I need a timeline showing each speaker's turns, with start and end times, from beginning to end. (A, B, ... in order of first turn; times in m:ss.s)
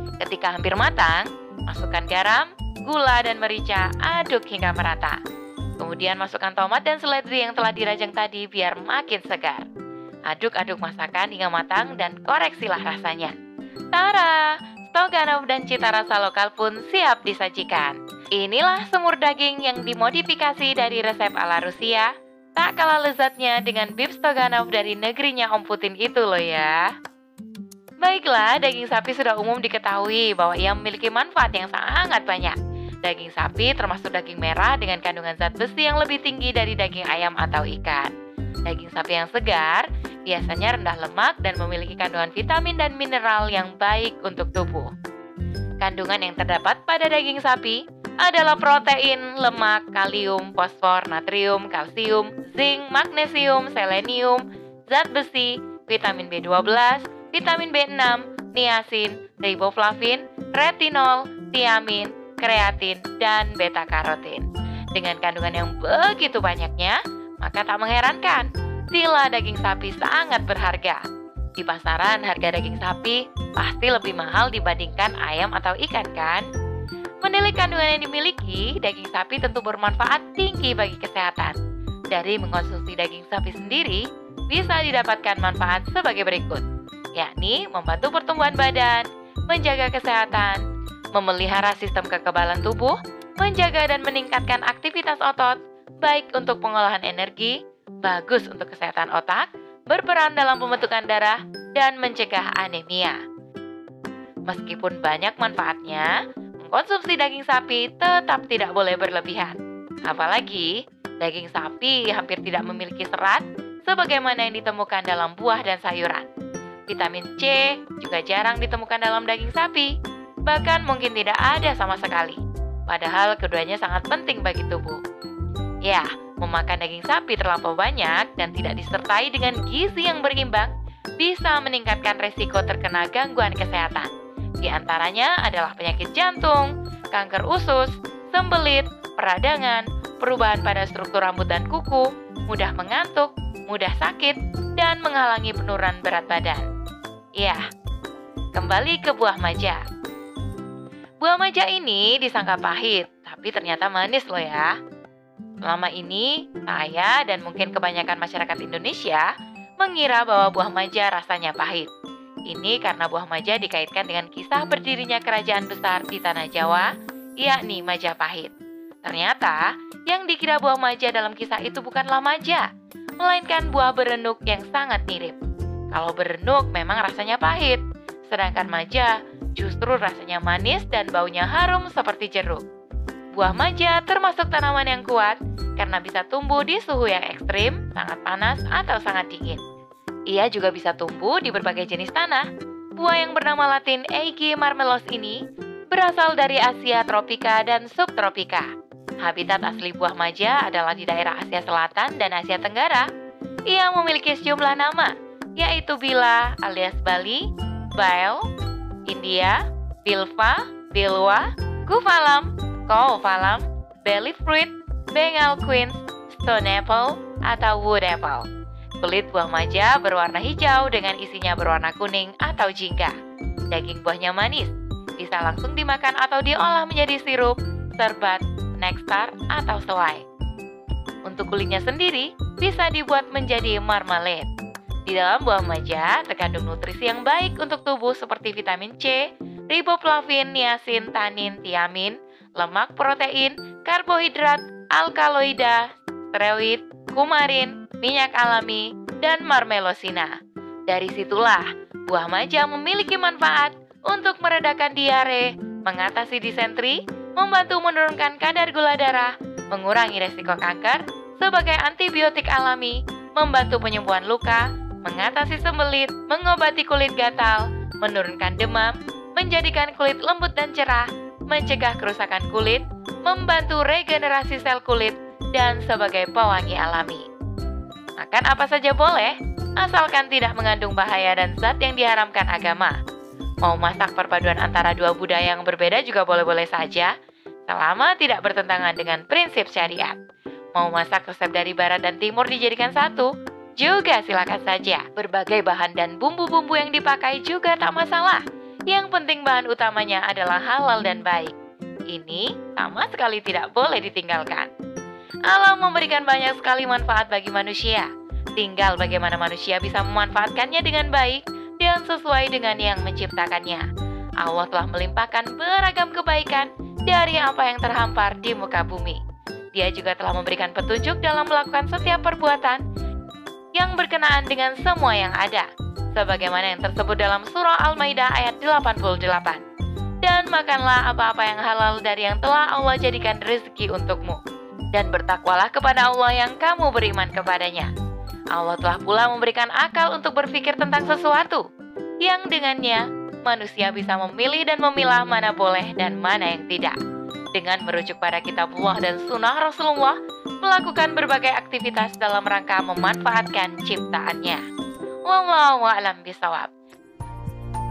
0:00.2-0:05.2 A
0:05.8-0:09.6 A
0:10.3-0:13.3 A
0:13.9-0:26.9 A
0:28.0-0:38.1 A
0:38.6-0:44.9 A
0:45.8-1:11.0 A
1:11.6-1:16.5 A
1:17.2-1:21.6 A
1:22.1-1:26.6 A
1:27.2-1:30.6 A
1:31.1-1:43.2 A
1:44.5-1:46.1 A
1:46.6-1:56.2 A
1:56.9-1:59.9 A
2:00.4-2:05.0 A
2:05.8-2:14.1 A
2:14.6-2:26.6 A
2:28.5-2:29.8 A
2:31.2-2:34.7 A
2:35.6-2:39.3 A
2:39.8-2:41.9 A
2:42.5-2:46.9 A
2:47.4-2:48.5 A
2:49.0-2:52.6 A
2:53.2-2:55.4 A
2:55.9-3:02.6 A
3:03.3-3:09.6 A
3:10.3-3:12.4 A
3:13.0-3:15.4 A
3:15.9-3:18.7 A
3:19.2-3:23.1 A
3:23.7-3:28.5 A
3:29.0-3:38.5 A
3:39.0-3:43.2 A
3:43.7-3:50.2 A
3:51.2-3:54.5 A
3:55.1-4:10.4 A
4:10.9-4:37.2 A
4:38.2-4:43.0 A
4:43.6-4:47.1 A
4:47.7-4:50.2 A
4:50.8-4:53.3 A
4:53.8-5:01.5 A
5:02.1-5:04.7 A
5:05.5-5:13.8 A
5:14.4-5:19.2 A
5:19.7-5:22.8 A
5:23.8-5:29.6 A
5:30.2-5:34.4 A
5:34.9-5:37.9 A
5:38.5-5:41.6 A
5:42.2-5:47.0 A
5:47.5-5:54.6 A
5:55.3-5:56.7 A